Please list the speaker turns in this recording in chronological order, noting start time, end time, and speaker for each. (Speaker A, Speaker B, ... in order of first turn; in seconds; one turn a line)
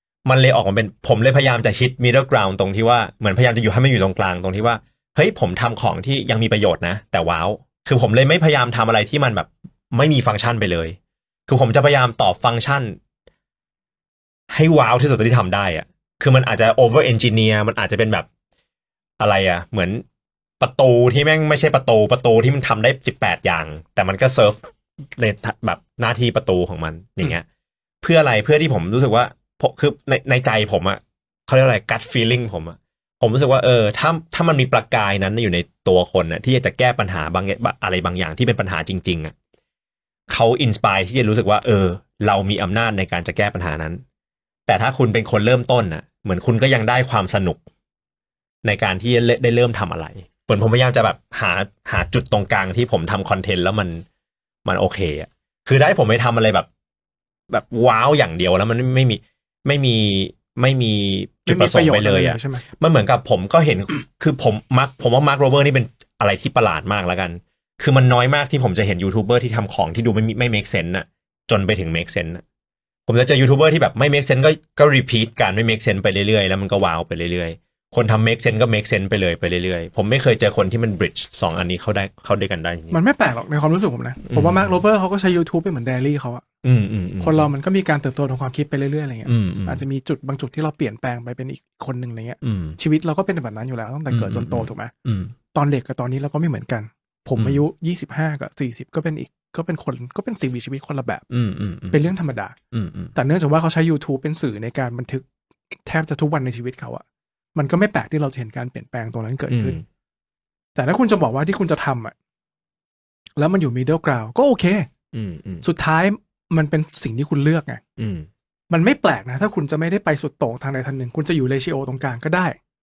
Speaker A: 0.2-11.0
Speaker A: 11.5-13.0
Speaker A: 14.5-18.3
Speaker A: 19.2-20.0
Speaker A: 20.6-27.4
Speaker A: 28.0-39.3
Speaker A: 40.3-44.0
Speaker A: 44.7-47.6
Speaker A: 48.6-54.0
Speaker A: 54.6-56.7
Speaker A: 57.5-72.4
Speaker B: 61.5-62.6
Speaker A: 73.1-83.0
Speaker B: 82.9-86.4
Speaker A: 84.3-84.7
Speaker A: 86.6-87.5
Speaker B: 87.2-94.9
Speaker A: 89.2-89.8
Speaker A: 92.4-92.8
Speaker A: 94.1-95.3
Speaker B: 95.5-101.2
Speaker A: 97.4-97.6
Speaker A: 101.3-102.1
Speaker B: 101.9-102.5
Speaker A: 102.7-103.1
Speaker B: 103.1-105.2
Speaker B: 105.8-107.0
Speaker B: 107.5-109.8
Speaker A: 109.5-109.8
Speaker B: 110.8-112.1
Speaker B: 113.4-114.9
Speaker A: 115.1-115.7
Speaker B: 115.6-117.8
Speaker A: 118.0-118.3
Speaker B: 118.7-122.6